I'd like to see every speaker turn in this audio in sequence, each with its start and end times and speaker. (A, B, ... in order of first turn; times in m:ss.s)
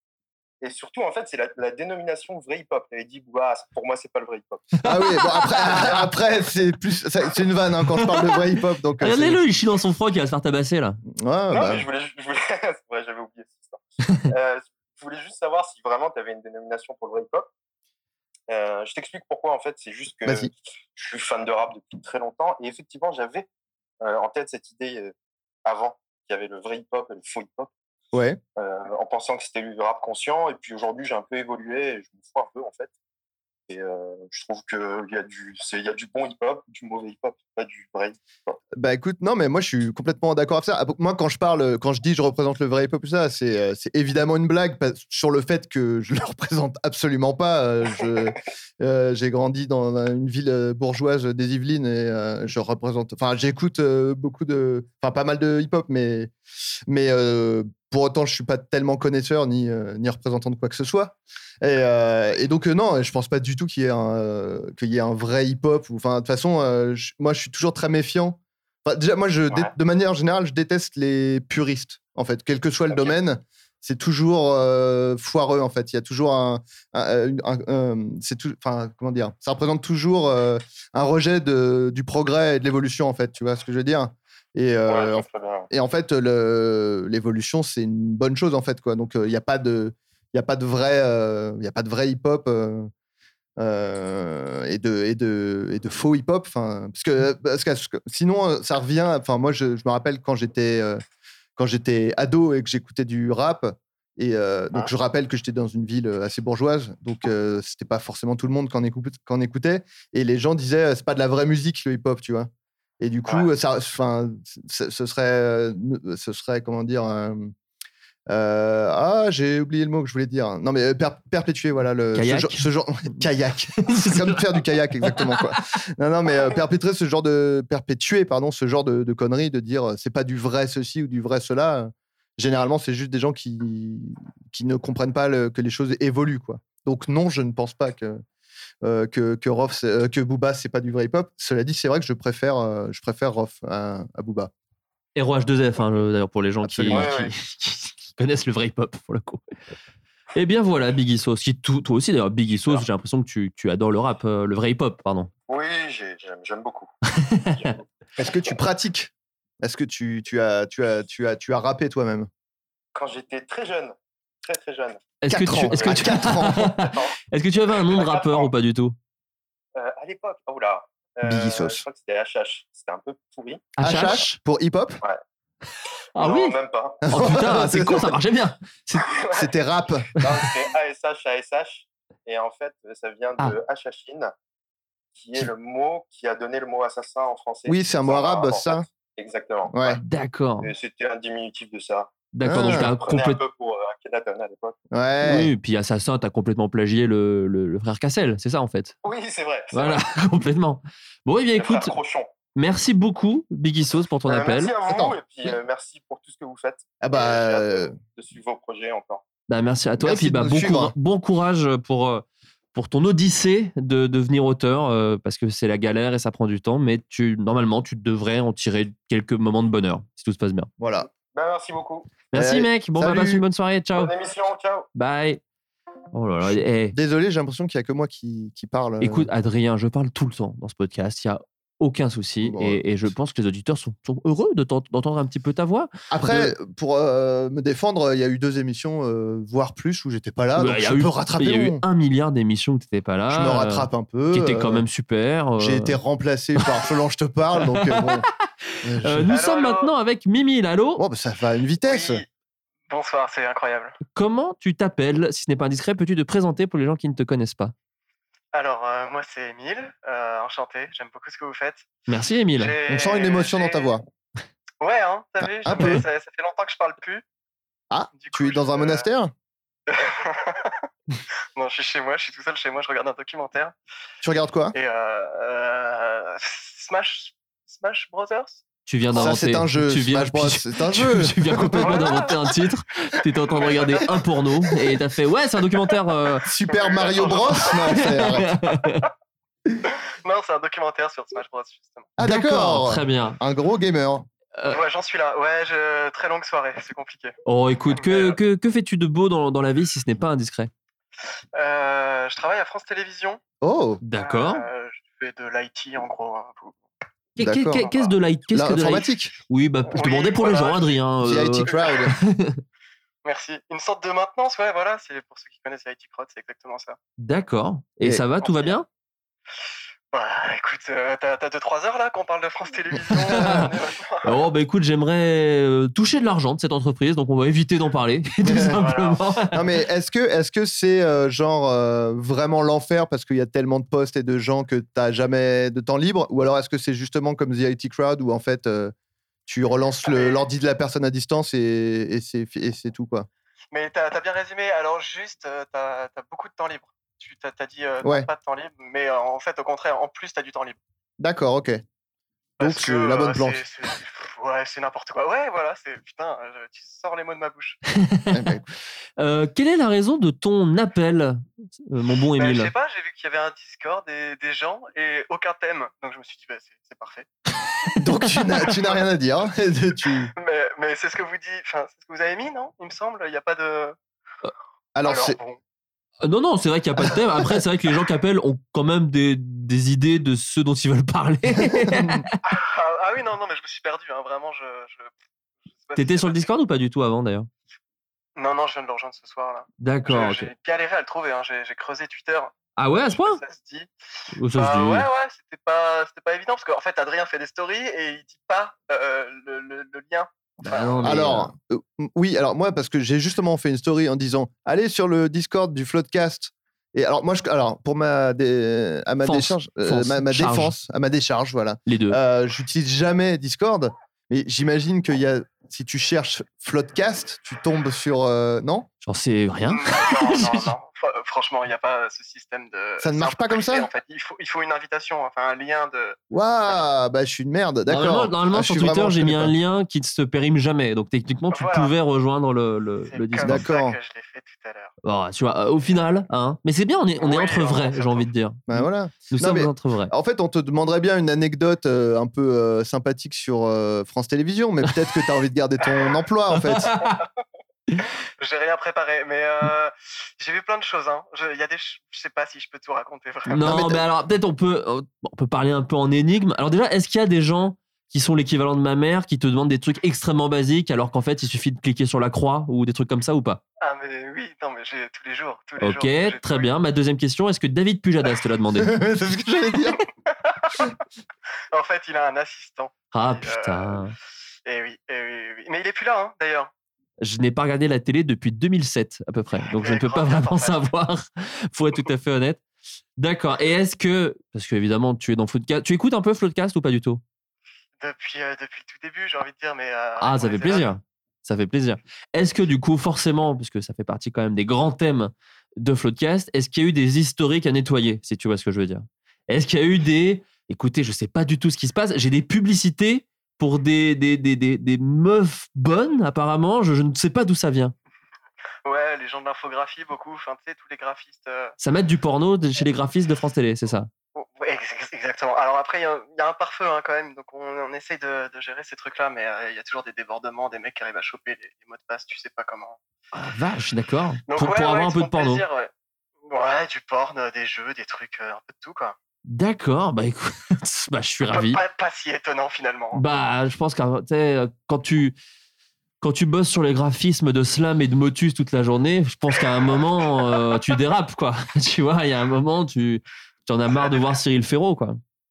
0:00.6-0:04.8 A
0:04.8-0:05.3 B
0:04.8-0:09.4 C
0:07.9-0:08.4 B
0:09.0-0:11.0 B
0:11.1-0:11.8 C
0:11.5-0:17.5 A
0:18.5-0:23.5 A
0:20.2-0:20.5 C
0:24.0-0:25.1 A
0:25.6-0:27.7 A
0:28.1-0:28.4 C
0:28.6-0:32.9 A
0:33.7-0:38.6 A
0:38.8-0:56.3 C
0:56.9-1:32.9 C
1:12.9-1:13.1 A
1:24.9-1:25.7 A
1:33.6-1:41.0 C
1:41.6-1:57.5 C
1:58.3-2:18.2 C
2:02.1-2:02.6 B
2:03.8-2:05.6 B
2:18.8-2:24.5 C
2:25.2-2:29.4 B
2:26.6-2:27.2 C
2:26.9-2:27.3 A
2:30.3-2:35.3 B
2:35.5-2:36.9 A
2:37.3-2:37.7 B
2:37.5-2:38.3 A
2:38.2-2:42.3 C
2:42.9-2:46.3 A
2:45.2-2:49.0 B
2:45.3-2:46.8 C
2:46.9-2:47.1 A
2:47.7-2:48.5 A
2:49.7-2:54.1 A
2:51.2-2:51.8 C
2:53.8-2:54.4 B
2:53.8-2:55.0 C
2:56.2-2:59.1 B
2:56.2-2:57.6 A
2:57.1-2:58.2 C
2:58.9-2:59.5 A
2:59.3-3:00.2 C
3:00.2-3:04.3 A
3:05.2-3:10.0 A
3:07.6-3:08.8 C
3:09.7-3:10.0 C
3:10.0-3:10.7 B
3:10.6-3:14.8 A
3:12.3-3:13.4 B
3:12.4-3:12.9 C
3:14.9-3:15.5 C
3:15.2-3:18.9 B
3:19.0-3:20.1 A
3:19.7-3:22.0 B
3:21.5-3:22.3 A
3:22.6-3:24.7 B
3:24.2-3:29.2 A
3:24.9-3:25.5 C
3:27.0-3:27.9 C
3:29.5-3:40.7 B
3:30.0-3:30.9 C
3:40.8-3:41.1 C
3:41.1-3:42.2 A
3:42.3-3:44.1 B
3:42.3-3:43.4 C
3:43.9-3:44.9 A
3:44.9-3:45.4 B
3:46.1-3:47.0 B
3:46.4-3:49.3 C
3:49.0-3:56.5 B
3:52.4-3:52.8 C
3:56.1-4:01.8 C
4:00.6-4:06.0 B
4:03.3-4:04.9 C
4:05.6-4:08.2 C
4:07.6-4:08.2 B
4:08.8-4:09.4 C
4:09.0-4:11.0 B
4:09.2-4:09.9 D
4:11.0-4:12.2 C
4:11.8-4:12.3 D
4:12.9-4:14.0 D
4:14.1-4:17.7 B
4:18.5-4:21.9 D
4:22.1-4:22.8 B
4:22.5-4:24.0 D
4:22.8-4:24.0 C
4:24.8-4:27.2 D
4:25.4-4:26.0 C
4:27.9-4:29.3 C
4:28.1-4:29.1 D
4:29.9-4:30.7 D
4:31.5-4:33.7 D
4:34.2-4:34.7 C
4:34.7-4:39.3 D
4:38.8-4:46.4 B
4:39.1-4:42.4 C
4:41.8-4:42.3 D
4:43.4-4:44.1 D
4:46.4-4:48.6 C
4:46.6-4:48.0 D
4:47.5-4:49.0 B
4:48.8-4:49.0 D
4:49.8-4:52.1 D
4:52.2-4:54.3 C
4:52.2-4:53.4 B
4:54.7-4:57.3 D
4:57.4-5:00.7 B
4:57.9-4:58.4 D
5:01.5-5:03.4 D
5:03.6-5:04.0 C
5:04.0-5:04.6 B
5:04.1-5:06.8 D
5:07.4-5:12.6 B
5:07.4-5:08.0 C
5:08.5-5:09.3 C
5:09.9-5:11.0 D
5:11.2-5:12.1 C
5:13.2-5:17.0 D
5:17.2-5:18.8 B
5:18.4-5:18.8 D
5:20.1-5:24.5 D
5:23.1-5:23.7 B
5:23.3-5:23.6 C
5:24.2-5:29.5 B
5:28.4-5:28.8 C
5:28.6-5:29.3 D
5:29.5-5:38.9 C
5:39.5-5:43.3 C
5:40.0-5:40.4 D
5:43.7-5:50.8 D
5:48.0-5:48.3 C
5:51.2-5:51.8 C
5:52.6-5:53.6 C
5:52.6-5:57.8 D
5:57.9-5:58.5 B
5:58.3-5:58.7 C
5:59.2-6:02.7 B
6:02.3-6:07.3 D
6:08.0-6:10.3 C
6:10.3-6:14.0 D
6:14.9-6:15.4 C
6:15.0-6:15.6 D
6:16.2-6:22.3 B
6:17.0-6:17.6 C
6:21.8-6:22.2 C
6:22.4-6:25.1 D
6:25.7-6:26.5 D
6:26.0-6:27.5 B
6:28.4-6:33.9 D
6:29.8-6:30.5 B
6:32.8-6:33.4 B
6:34.4-6:35.1 B
6:34.5-6:41.2 D
6:40.6-6:41.5 B
6:41.0-6:58.9 C
6:49.2-6:50.7 B
6:51.8-6:52.2 B
6:59.0-7:00.7 B
6:59.6-7:06.2 D
7:03.0-7:03.9 C
7:06.3-7:09.5 C
7:07.9-7:13.7 B
7:11.5-7:12.0 D
7:13.1-7:14.9 D
7:13.4-7:14.0 C
7:15.0-7:20.1 B
7:17.2-7:18.3 D
7:18.7-7:26.9 C
7:26.6-7:27.2 B
7:28.4-7:33.8 D
7:33.5-7:43.6 B
7:33.5-7:34.0 C
7:43.8-7:46.7 D
7:45.8-7:48.9 B
7:48.8-7:50.0 C
7:50.4-7:50.9 D
7:51.7-7:54.1 D
7:53.1-7:54.1 B
7:54.6-7:56.7 D
7:57.2-8:02.6 B
7:59.6-8:00.8 D
8:03.2-8:07.2 B
8:08.0-8:10.9 D
8:10.2-8:27.9 B
8:28.8-8:31.7 D
8:31.8-8:34.1 B
8:34.3-8:43.0 D
8:43.3-8:45.6 B
8:44.5-8:45.9 D
8:46.4-8:49.2 D
8:49.4-8:51.8 B
8:51.4-8:53.2 D
8:53.1-8:55.3 B
8:56.2-9:05.2 B
9:03.9-9:04.3 D